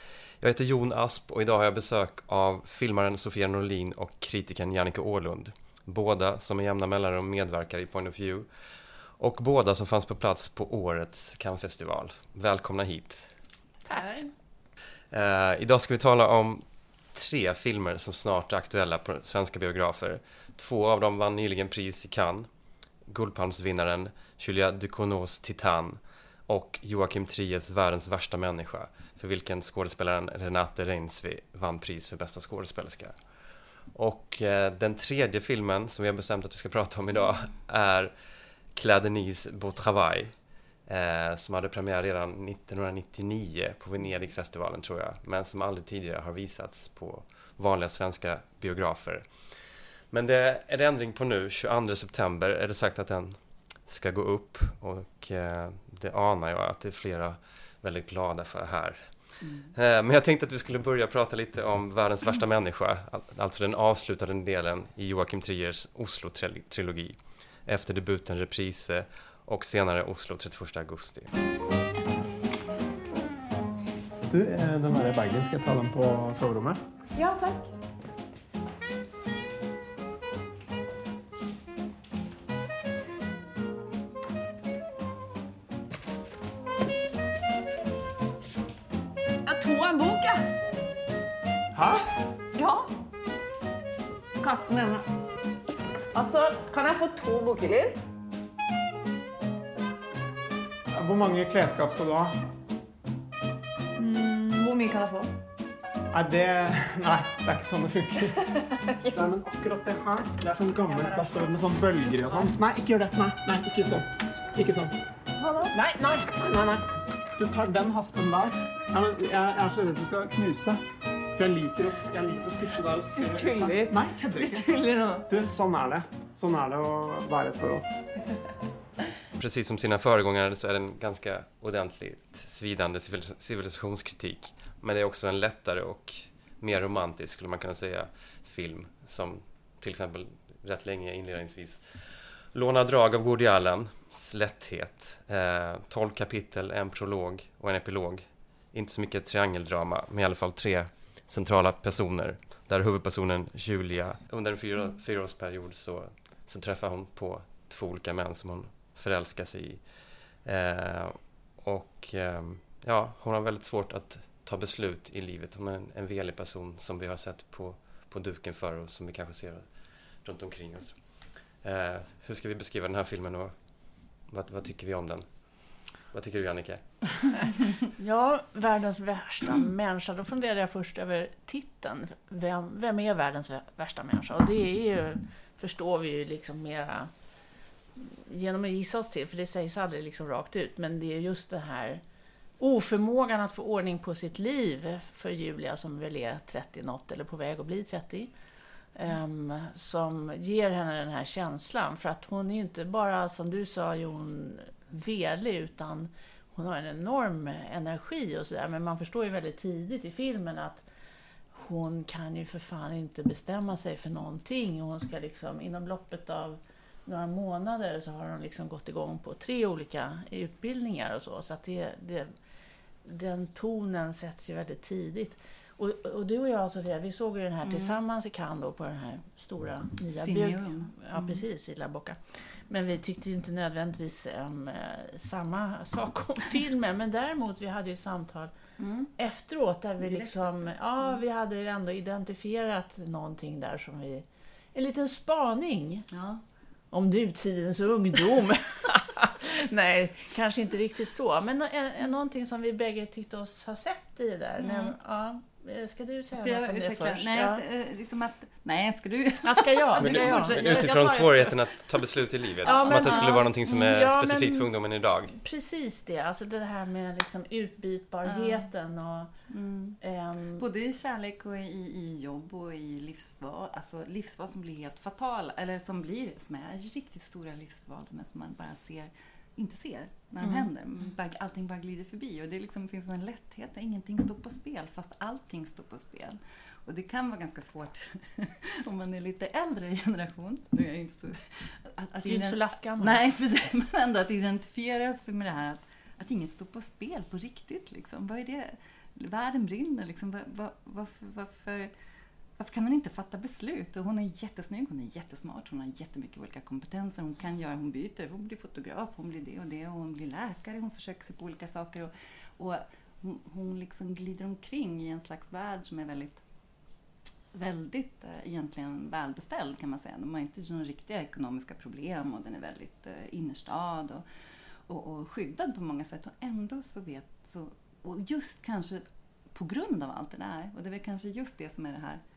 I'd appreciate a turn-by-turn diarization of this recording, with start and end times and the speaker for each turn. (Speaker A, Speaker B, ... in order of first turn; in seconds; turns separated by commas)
Speaker A: 0.4-13.4, Speaker B: 13.9-14.3, Speaker A: 15.1-22.5, Speaker A: 23.1-38.1, Speaker A: 38.7-71.3, Speaker C: 59.4-59.7, Speaker D: 74.3-76.8, Speaker E: 77.2-77.6, Speaker E: 89.5-90.5, Speaker D: 91.7-92.1, Speaker E: 92.5-92.9, Speaker E: 94.4-95.0, Speaker E: 96.1-98.0, Speaker D: 100.9-102.4, Speaker E: 104.0-105.3, Speaker D: 106.1-108.4, Speaker E: 108.4-109.3, Speaker D: 109.2-115.0, Speaker E: 110.9-111.2, Speaker E: 115.4-115.8, Speaker D: 115.8-120.8, Speaker D: 121.3-124.7, Speaker E: 123.3-123.7, Speaker E: 124.4-125.3, Speaker D: 125.3-127.9, Speaker A: 129.4-177.2, Speaker B: 178.0-187.1, Speaker B: 188.0-192.0, Speaker B: 192.6-198.3, Speaker B: 198.9-210.9, Speaker B: 211.5-222.3, Speaker B: 223.0-238.5, Speaker C: 227.6-228.0, Speaker C: 230.1-231.4, Speaker C: 238.8-239.1, Speaker B: 239.2-246.1, Speaker C: 240.0-241.2, Speaker C: 246.1-246.4, Speaker B: 246.9-257.6, Speaker C: 254.6-254.9, Speaker C: 256.3-261.5, Speaker B: 259.4-261.3, Speaker A: 260.0-265.4, Speaker C: 262.6-263.4, Speaker B: 262.6-264.7, Speaker B: 265.3-269.3, Speaker C: 268.2-268.7, Speaker C: 269.5-270.0, Speaker B: 270.0-270.6, Speaker C: 270.6-301.9, Speaker B: 280.4-280.7, Speaker B: 292.3-293.2, Speaker C: 302.6-316.4, Speaker C: 317.5-324.2, Speaker C: 324.9-332.2